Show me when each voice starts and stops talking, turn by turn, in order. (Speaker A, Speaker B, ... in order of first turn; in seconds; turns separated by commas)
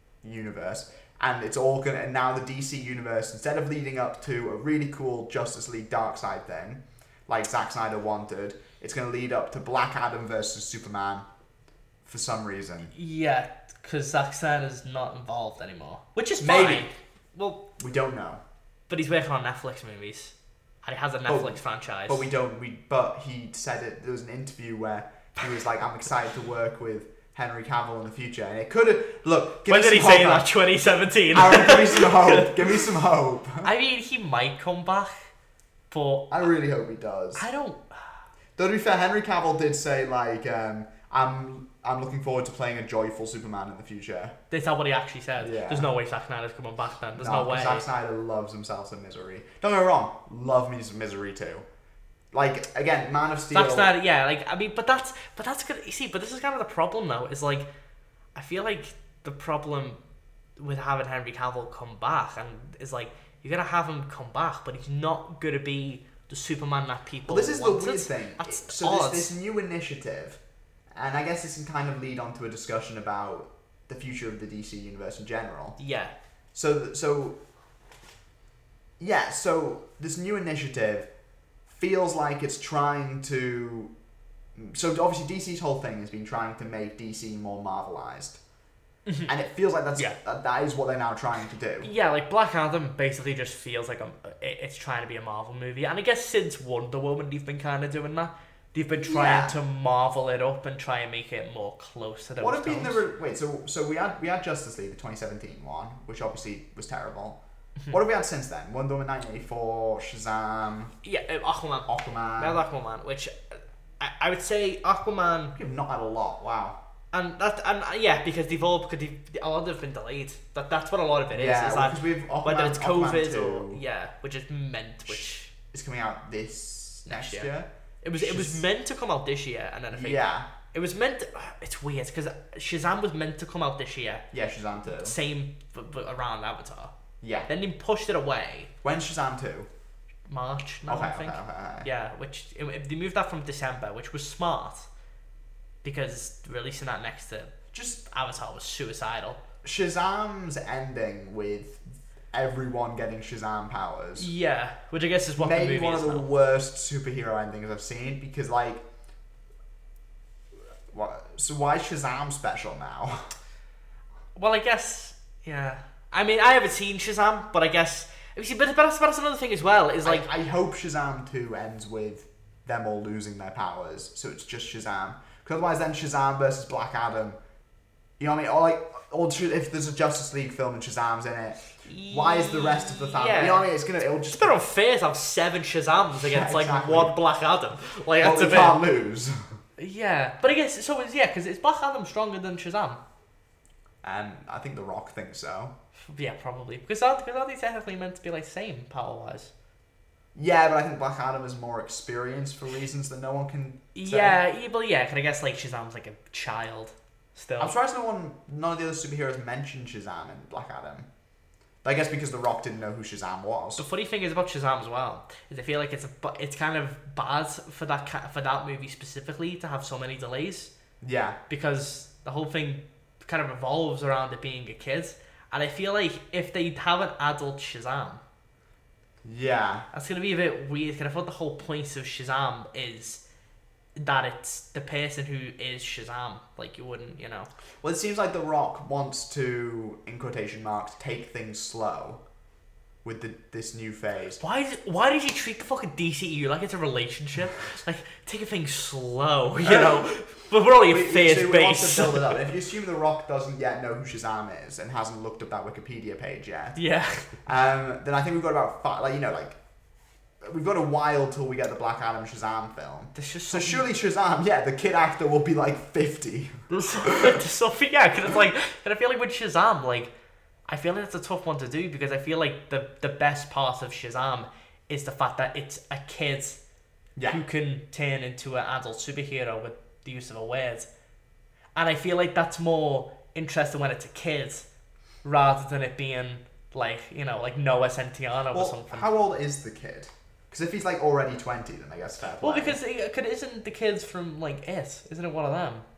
Speaker A: 0.2-11.3, Speaker A: 12.1-12.9, Speaker B: 12.9-17.6, Speaker A: 16.4-16.9, Speaker A: 17.8-18.4, Speaker B: 18.9-22.2, Speaker A: 21.3-30.5, Speaker B: 29.7-32.9, Speaker A: 31.3-33.7, Speaker B: 33.6-35.1, Speaker B: 35.9-36.5, Speaker A: 36.3-37.5, Speaker B: 37.4-38.1, Speaker A: 38.6-44.3, Speaker B: 44.5-47.9, Speaker A: 45.4-45.9, Speaker A: 47.1-51.6, Speaker A: 52.3-53.9, Speaker B: 53.5-57.7, Speaker B: 58.3-60.0, Speaker B: 60.6-69.3, Speaker A: 67.3-70.4, Speaker A: 70.9-75.8, Speaker B: 75.8-76.1, Speaker A: 76.5-77.4, Speaker A: 79.0-81.1, Speaker A: 81.7-83.9, Speaker A: 84.5-88.4, Speaker A: 89.3-91.9, Speaker B: 91.8-103.0, Speaker A: 99.0-99.5, Speaker A: 102.4-110.9, Speaker B: 111.0-115.5, Speaker A: 111.9-112.6, Speaker A: 115.5-116.8, Speaker B: 117.1-125.5, Speaker A: 121.3-123.8, Speaker A: 125.1-128.6, Speaker B: 127.0-127.5, Speaker B: 128.0-130.2, Speaker A: 129.9-130.5, Speaker B: 130.7-134.2, Speaker A: 134.3-135.2, Speaker B: 134.9-136.9, Speaker A: 137.2-137.5, Speaker B: 137.5-138.7, Speaker A: 138.8-139.7, Speaker B: 140.3-144.9, Speaker A: 140.9-141.9, Speaker B: 145.8-147.5, Speaker A: 147.7-148.0, Speaker B: 148.1-149.4, Speaker A: 149.6-154.3, Speaker B: 154.2-156.3, Speaker A: 155.4-158.8, Speaker A: 160.9-163.3, Speaker B: 164.3-170.3, Speaker A: 170.0-177.4, Speaker A: 178.2-184.6, Speaker B: 181.8-183.7, Speaker B: 184.3-188.8, Speaker A: 186.2-187.2, Speaker A: 188.2-189.4, Speaker B: 189.8-193.0, Speaker A: 194.0-195.7, Speaker B: 196.0-199.5, Speaker A: 200.3-204.4, Speaker B: 203.9-207.7, Speaker A: 207.6-211.1, Speaker A: 211.8-213.8, Speaker B: 213.8-220.7, Speaker A: 221.0-221.4, Speaker B: 221.5-228.2, Speaker A: 229.2-229.9, Speaker B: 229.9-233.2, Speaker B: 233.9-237.5, Speaker A: 237.8-242.2, Speaker A: 243.0-244.4, Speaker B: 244.4-252.4, Speaker A: 249.6-250.1, Speaker A: 250.9-256.8, Speaker B: 256.8-257.3, Speaker A: 257.4-259.6, Speaker A: 260.4-267.4, Speaker B: 263.1-263.9, Speaker B: 266.7-270.1, Speaker B: 270.7-276.6, Speaker A: 277.1-277.4, Speaker B: 277.3-280.9, Speaker B: 281.7-284.6, Speaker B: 285.2-289.1, Speaker A: 288.5-292.8, Speaker B: 292.4-295.8